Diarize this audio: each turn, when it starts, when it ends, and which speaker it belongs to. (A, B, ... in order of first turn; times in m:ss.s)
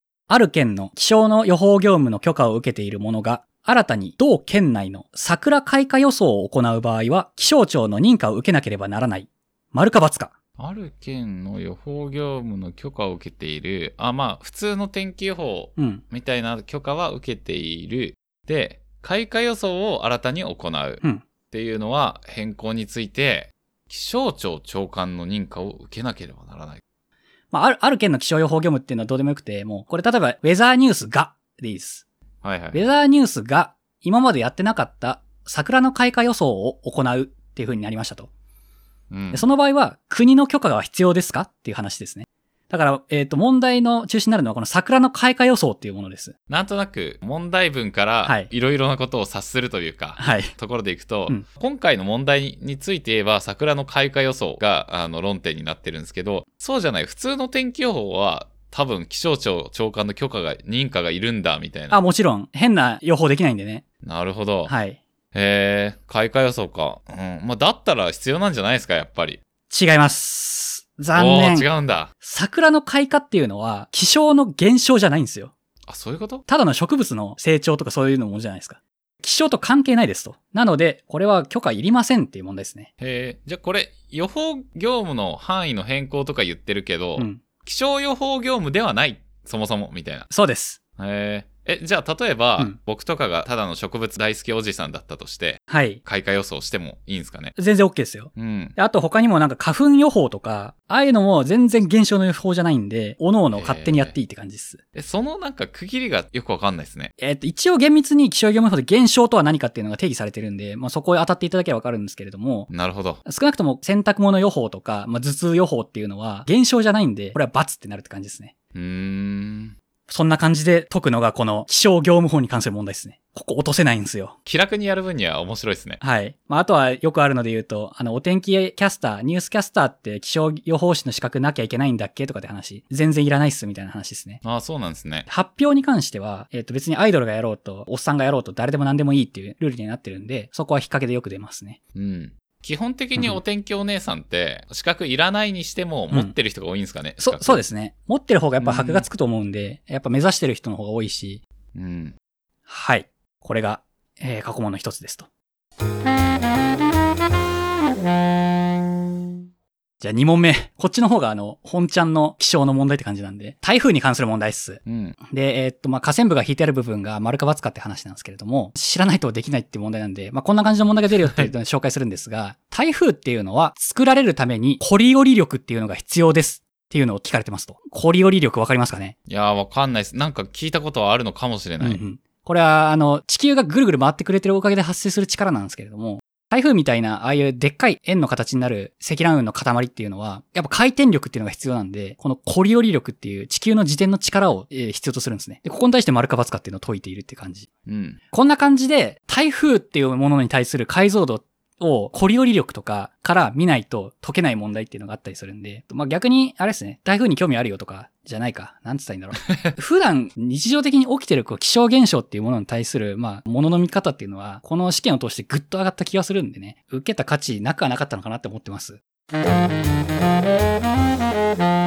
0:00.3-0:10.3 A
0:10.6-0:26.8 B
0:15.8-0:16.0 A
0:27.5-0:32.0 A
0:32.4-0:32.8 B
0:32.7-0:38.3 A
0:39.1-0:39.5 B
0:39.3-0:46.3 A
0:46.5-1:02.0 B
0:48.2-0:48.5 A
0:50.2-0:50.5 A
1:01.9-1:03.8 A
1:04.0-1:04.7 B
1:04.6-1:05.0 A
1:05.3-1:09.4 B
1:09.7-1:11.7 A
1:11.1-1:12.1 B
1:12.2-1:15.5 A
1:15.9-1:16.4 B
1:16.5-1:22.9 A
1:23.0-1:30.3 B
1:27.2-1:27.4 A
1:30.3-1:30.8 A
1:31.0-1:37.5 B
1:35.7-1:36.0 A
1:37.6-1:44.8 A
1:38.4-1:38.8 B
1:43.5-1:44.1 B
1:44.9-1:47.1 B
1:47.2-1:52.7 A
1:52.7-1:53.2 B
1:53.2-1:58.5 A
1:58.7-1:59.7 B
2:00.1-2:04.4 A
2:04.4-2:06.0 B
2:06.0-2:14.4 A
2:14.4-2:15.3 B
2:15.3-2:21.8 A
2:21.9-2:27.6 B
2:27.2-2:31.4 A
2:28.6-2:29.0 B
2:31.7-2:32.2 B
2:32.7-2:35.3 A
2:40.0-2:59.2 A
2:44.8-2:45.2 B
2:59.3-3:02.0 B
3:01.8-3:17.7 A
3:17.9-3:18.2 B
3:18.3-3:39.0 A